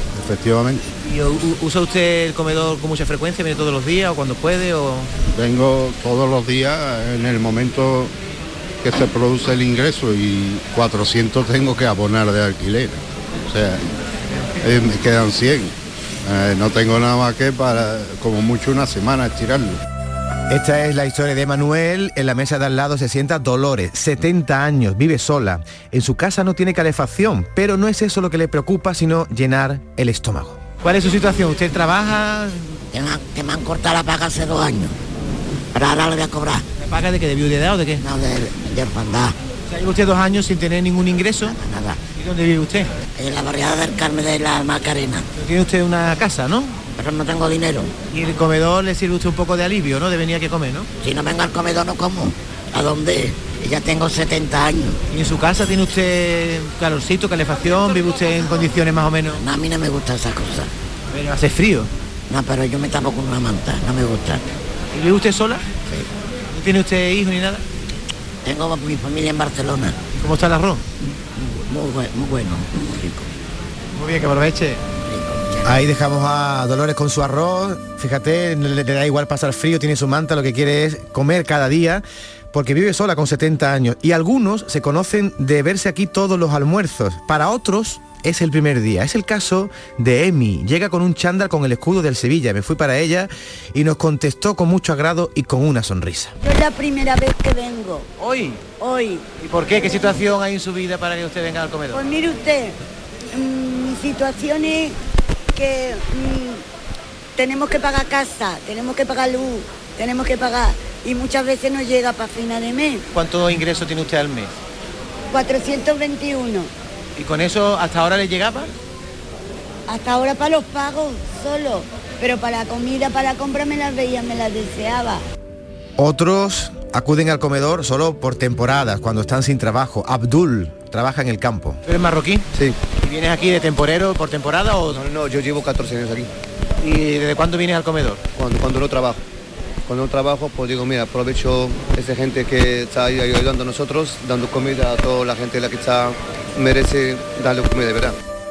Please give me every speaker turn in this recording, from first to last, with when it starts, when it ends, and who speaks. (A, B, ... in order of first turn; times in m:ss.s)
0:00.2-0:00.9 A
0:01.1-0:05.1 B
0:05.3-0:08.1 A
0:08.8-0:13.8 A
0:14.6-0:15.7 A
0:16.3-0:19.8 A
0:20.5-0:32.8 B
0:32.9-0:34.9 C
0:35.7-0:36.6 C
0:36.8-0:38.0 B
0:38.0-0:39.4 C
0:39.7-0:41.6 B
0:41.5-0:42.0 C
0:42.2-0:42.9 B
0:43.2-0:45.2 C
0:45.4-0:46.8 B
0:47.0-0:47.9 C
0:48.1-0:50.9 B
0:51.0-0:55.0 C
0:55.1-0:59.4 B
0:59.4-1:00.7 C
1:01.1-1:01.9 B
1:02.3-1:04.4 C
1:04.9-1:05.6 B
1:06.5-1:07.6 B
1:08.4-1:10.0 C
1:10.1-1:10.8 B
1:11.4-1:13.2 C
1:14.0-1:14.8 B
1:15.1-1:15.7 C
1:15.6-1:36.4 B
1:36.4-1:38.1 D
1:38.2-1:38.6 B
1:38.8-1:39.4 D
1:39.4-1:42.0 B
1:41.9-1:42.8 D
1:43.3-1:45.0 D
1:45.6-1:46.6 D
1:47.4-1:53.0 D
1:53.1-1:54.6 B
1:55.3-1:56.7 D
1:57.2-1:58.7 B
1:59.9-2:05.2 D
2:06.0-2:12.5 B
2:13.0-2:15.0 B
2:14.9-2:16.3 E
2:16.8-2:18.3 B
2:18.4-2:19.2 E
2:19.9-2:28.2 E